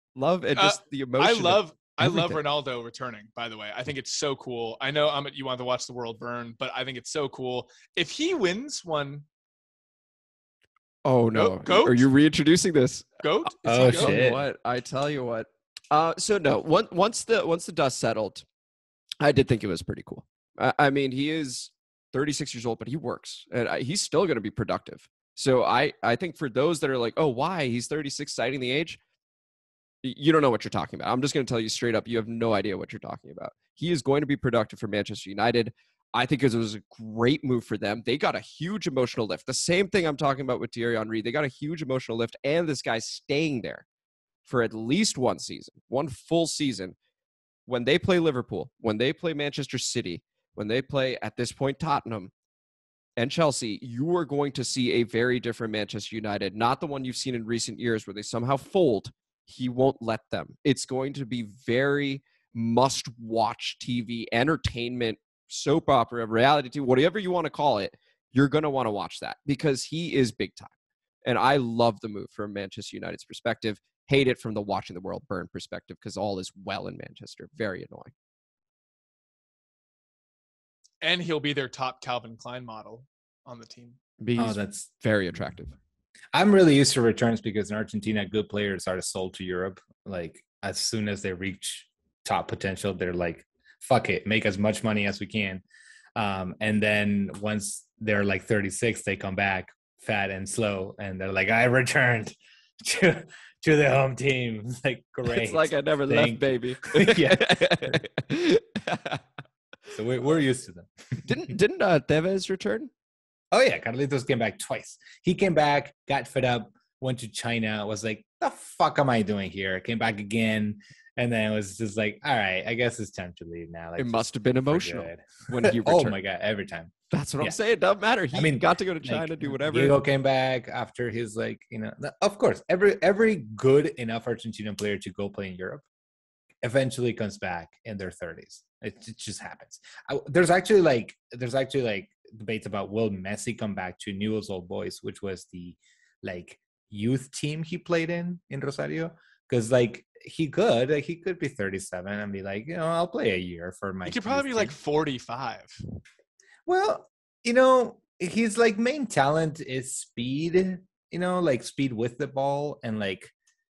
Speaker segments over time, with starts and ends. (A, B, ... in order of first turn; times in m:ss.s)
0:00.2-0:02.4 A
0:00.6-0:09.2 B
0:11.0-0:18.4 A
0:11.4-0:12.1 B
0:13.2-0:14.2 B
0:13.6-0:14.4 C
0:19.2-0:29.0 A
0:30.0-0:43.8 A
0:44.5-0:47.0 A
0:47.7-0:52.3 A
0:53.2-1:10.7 A
1:11.2-1:18.1 A
1:21.0-1:24.0 B
1:24.2-1:25.8 A
1:24.4-1:24.9 C
1:26.3-1:35.6 C
1:36.2-1:48.0 C
1:45.3-1:49.2 A
1:49.9-1:51.4 C
1:51.2-1:52.9 A
1:53.5-2:07.6 C
2:04.0-2:06.2 A
2:07.1-2:10.0 A
2:08.3-2:15.8 C
2:16.6-2:34.8 C
2:34.0-2:35.8 B
2:36.7-2:43.3 C